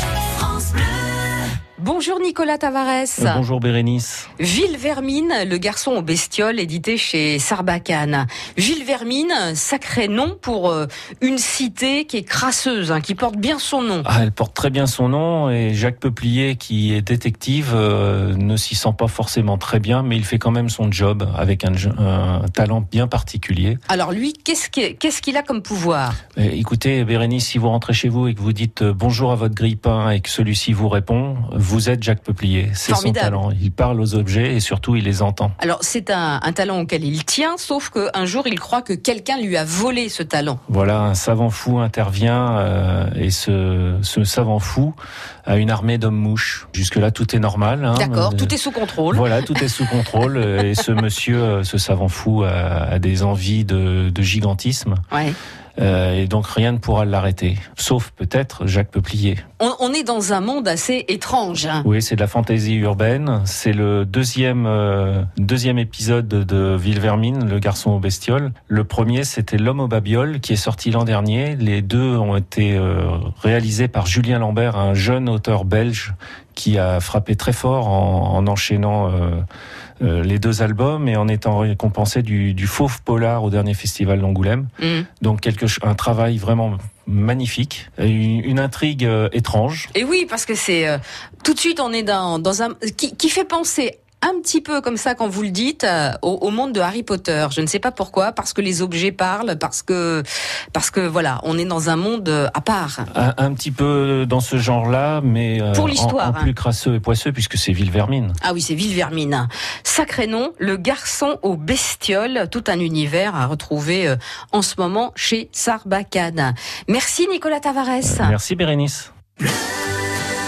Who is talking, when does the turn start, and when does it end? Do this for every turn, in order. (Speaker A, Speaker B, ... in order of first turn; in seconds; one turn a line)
Speaker A: 0.4-3.4
Speaker B: 3.2-4.3
Speaker A: 4.4-14.1
Speaker B: 14.0-23.8
Speaker A: 23.9-26.2
Speaker B: 26.4-35.5
Speaker A: 32.8-33.4
Speaker A: 35.6-40.6
Speaker B: 40.7-44.9
Speaker B: 45.5-48.5
Speaker A: 47.9-50.0
Speaker B: 49.1-55.0
Speaker B: 55.8-59.4
Speaker A: 59.6-61.9
Speaker B: 61.8-79.4
Speaker B: 80.0-84.7
Speaker A: 84.8-85.1
Speaker B: 85.2-89.9
Speaker A: 89.9-103.1
Speaker B: 103.1-108.4
Speaker A: 105.7-106.5
Speaker A: 108.4-118.3
Speaker B: 118.0-119.1